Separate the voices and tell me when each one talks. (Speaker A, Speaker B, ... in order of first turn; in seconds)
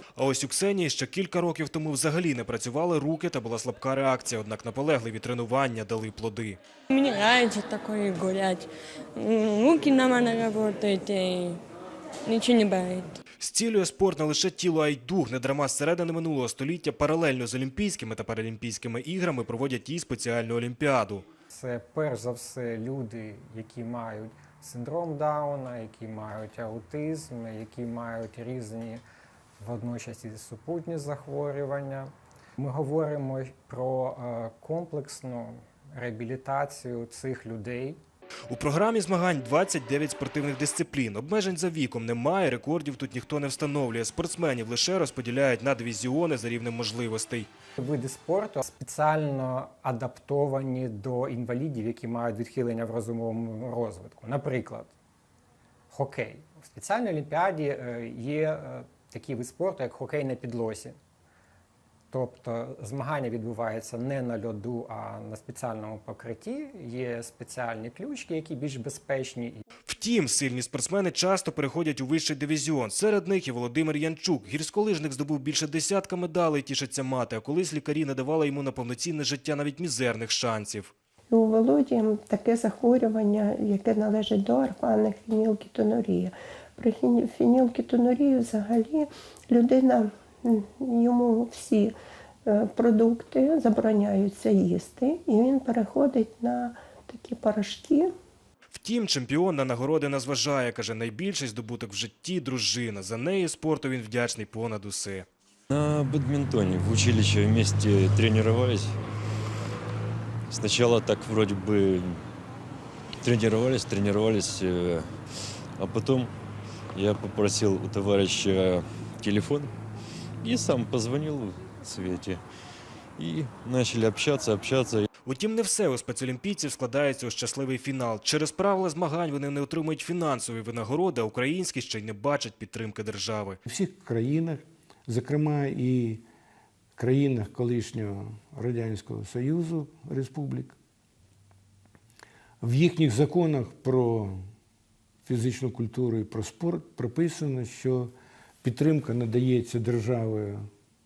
Speaker A: 0.2-6.6, 13.4-21.2, 38.5-47.5, 69.9-80.9, 98.7-105.3, 125.3-133.6
Speaker B: 6.9-11.6, 12.3-13.1
Speaker C: 21.5-29.0, 29.6-38.0, 47.8-54.9, 55.9-61.0, 62.1-69.6
Speaker D: 81.3-92.0, 92.5-98.1
Speaker E: 105.7-109.0, 110.5-112.2, 113.2-115.1, 115.8-116.3, 116.9-119.7, 120.4-122.4, 123.2-125.1
Speaker F: 133.7-136.2, 137.0-140.8, 142.6-144.4, 145.3-150.7